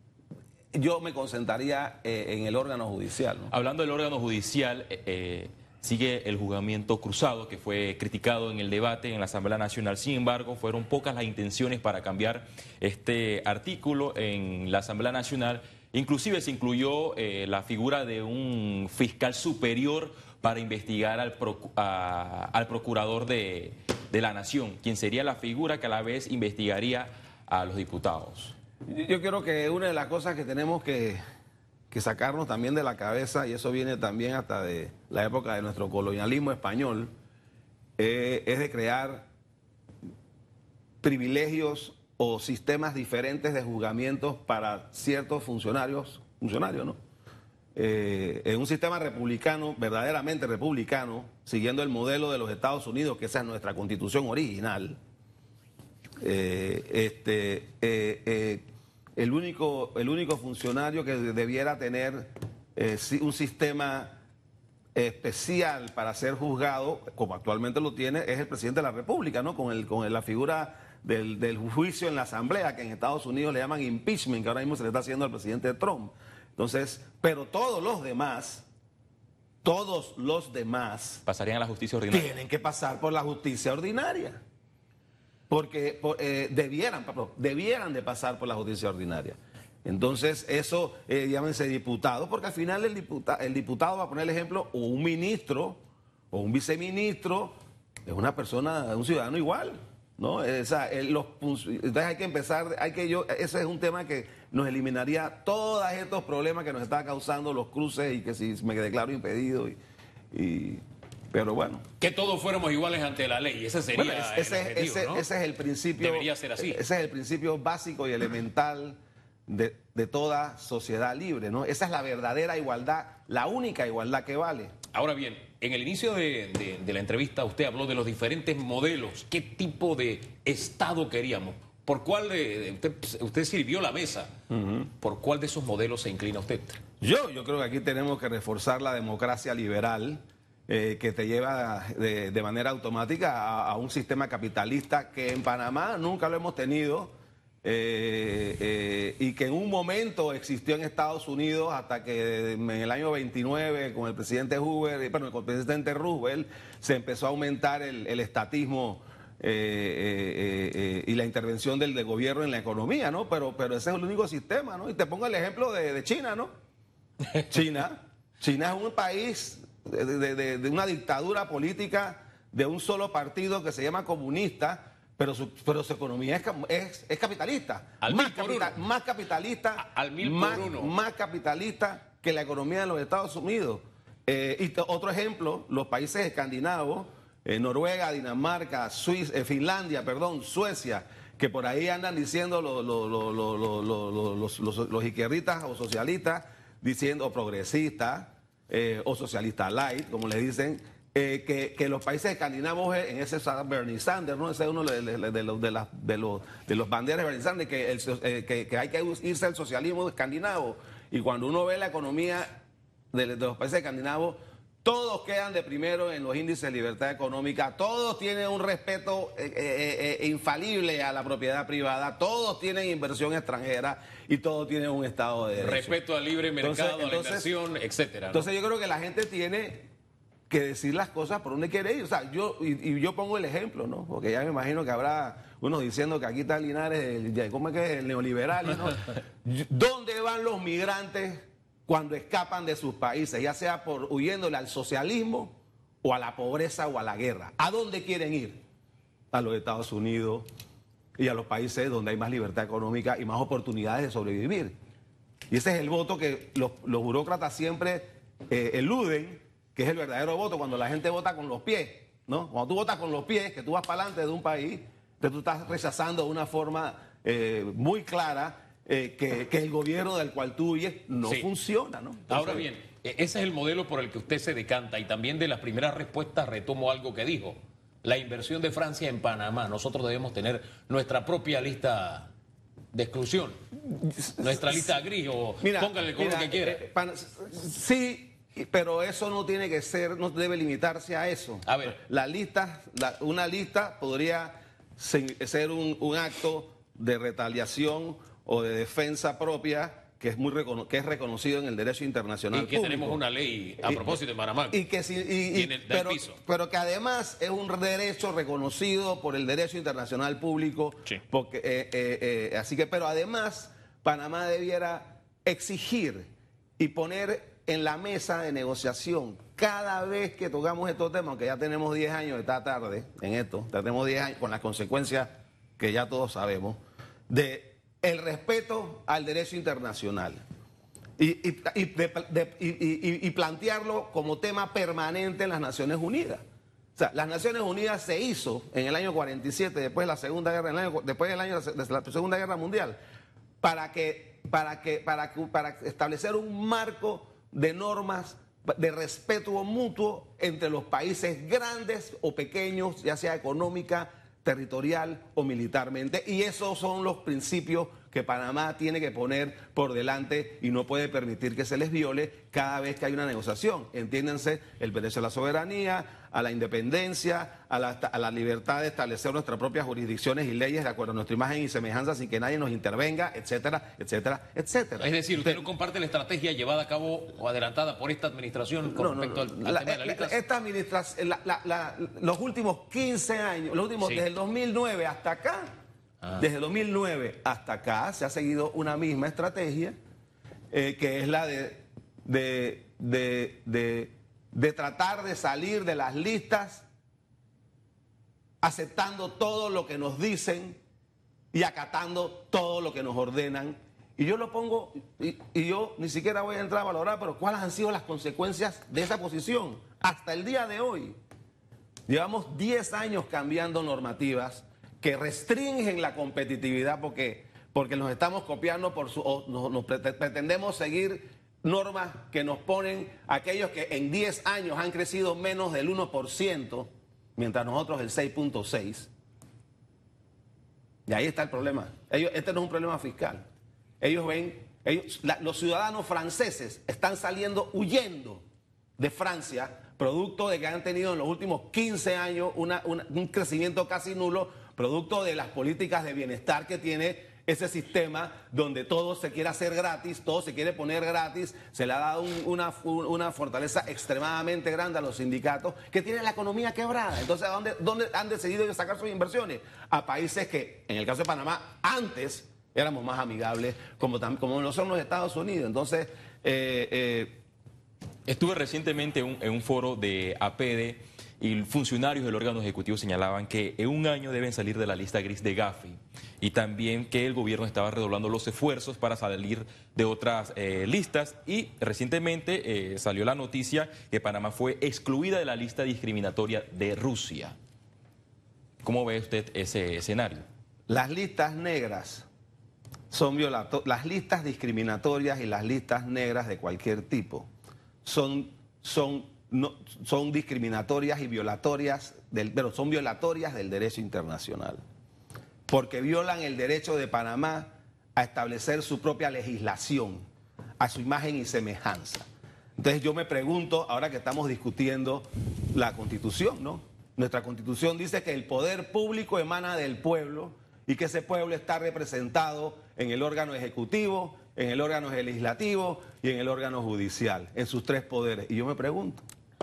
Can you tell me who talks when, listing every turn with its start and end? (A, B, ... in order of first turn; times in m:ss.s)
0:00.7-0:03.5 A
0:03.5-0:28.5 B
0:28.9-0:31.2 A
0:31.9-0:37.1 A
0:38.0-0:39.3 A
0:41.0-0:47.0 A
0:47.8-0:55.0 A
0:56.2-0:58.6 A
0:59.2-1:04.2 A
1:05.0-1:18.7 A
1:19.6-1:21.2 A
1:21.3-1:22.3 B
1:22.1-1:24.4 A
1:25.5-1:49.8 A
1:50.3-1:51.8 A
1:52.0-1:55.3 C
1:53.9-2:04.8 A
1:56.0-1:56.8 C
2:04.9-2:14.3 C
2:14.5-2:14.8 A
2:14.8-2:16.8 C
2:17.0-2:46.5 A
2:47.5-3:46.0 A
2:58.0-2:58.8 C
2:59.8-3:00.9 C
3:45.6-3:48.5 C
3:46.6-3:47.5 A
3:48.3-3:49.9 A
3:50.5-4:08.6 A
4:09.3-4:10.5 A
4:11.2-4:14.8 A
4:15.5-4:32.7 A
4:31.2-4:31.5 C
4:32.3-4:42.3 C
4:42.9-4:43.6 C
4:43.9-4:44.9 A
4:44.4-4:46.8 C
4:45.6-5:03.2 A
4:51.7-4:52.0 C
5:02.5-5:04.8 C
5:03.8-5:04.2 A
5:04.7-5:30.4 A
5:05.5-5:06.4 C
5:31.2-5:36.4 A
5:37.0-5:43.0 A
5:43.6-6:15.6 A
6:15.0-6:20.4 C
6:18.9-6:25.7 A
6:26.4-6:30.0 A
6:30.7-6:36.9 A
6:38.6-6:40.8 A
6:41.5-6:51.2 A
6:52.1-7:09.1 A
7:11.1-7:13.4 A
7:14.0-7:18.4 A
7:19.0-7:47.4 A
7:48.3-8:07.6 B
8:08.8-8:10.5 B
8:10.9-8:12.3 A
8:13.1-8:17.5 A
8:18.0-8:24.8 A
8:25.7-8:30.2 A
8:30.8-8:49.2 A